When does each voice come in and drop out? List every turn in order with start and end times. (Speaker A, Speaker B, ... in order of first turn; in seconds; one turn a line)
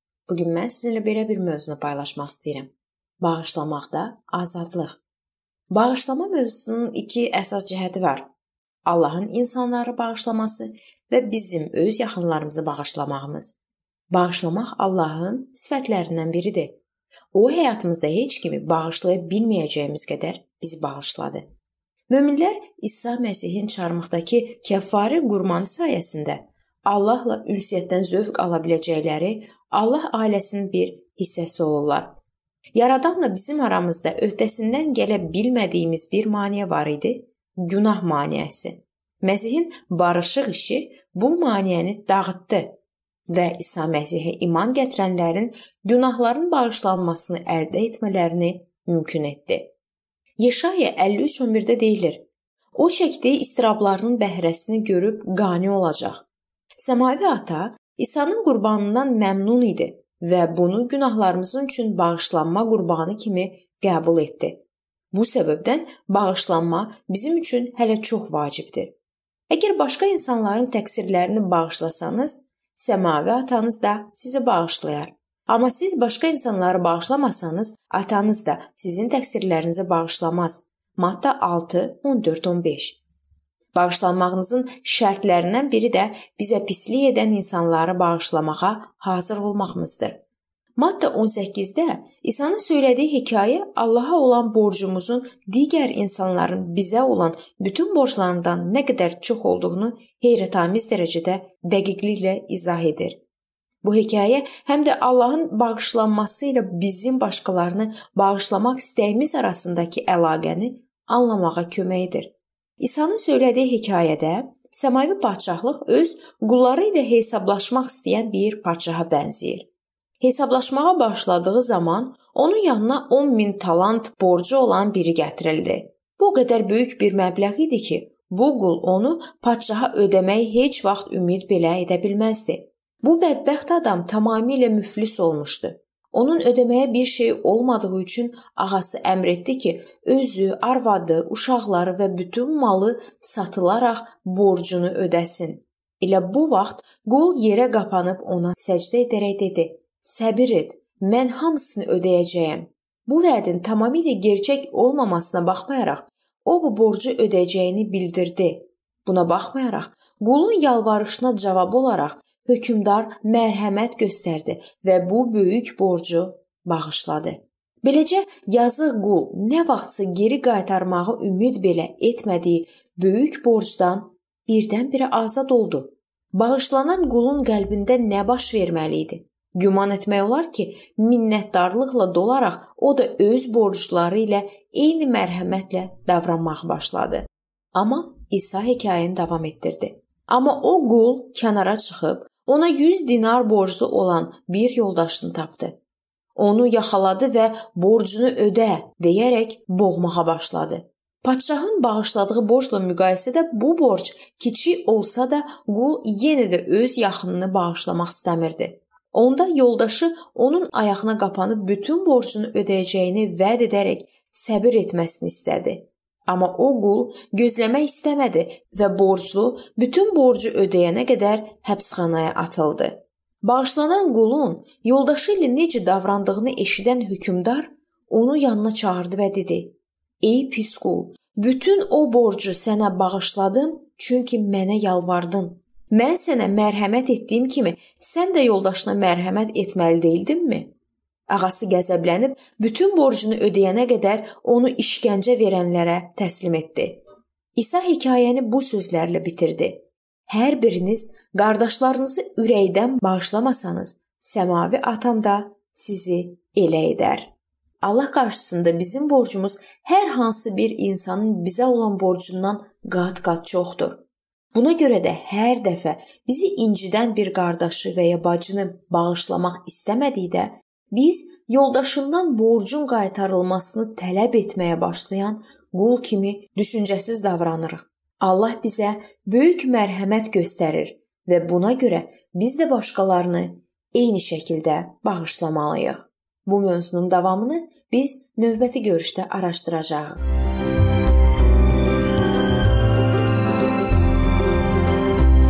Speaker A: 0.3-5.0
Speaker A: 5.7-8.3
Speaker A: 8.8-13.6
Speaker A: 14.1-16.8
Speaker A: 17.3-21.4
Speaker A: 22.1-32.2
Speaker A: 32.8-42.8
Speaker A: 43.3-49.7
Speaker A: 50.4-52.2
Speaker A: 52.8-56.3
Speaker A: 56.8-68.9
Speaker A: 69.5-83.0
Speaker A: 83.7-90.2
Speaker A: 90.8-103.2
Speaker A: 103.8-119.7
Speaker A: 120.2-195.8
Speaker A: 196.4-240.7
Speaker A: 241.3-247.0
Speaker A: 247.6-257.3
Speaker A: 257.8-264.0
Speaker A: 264.5-290.3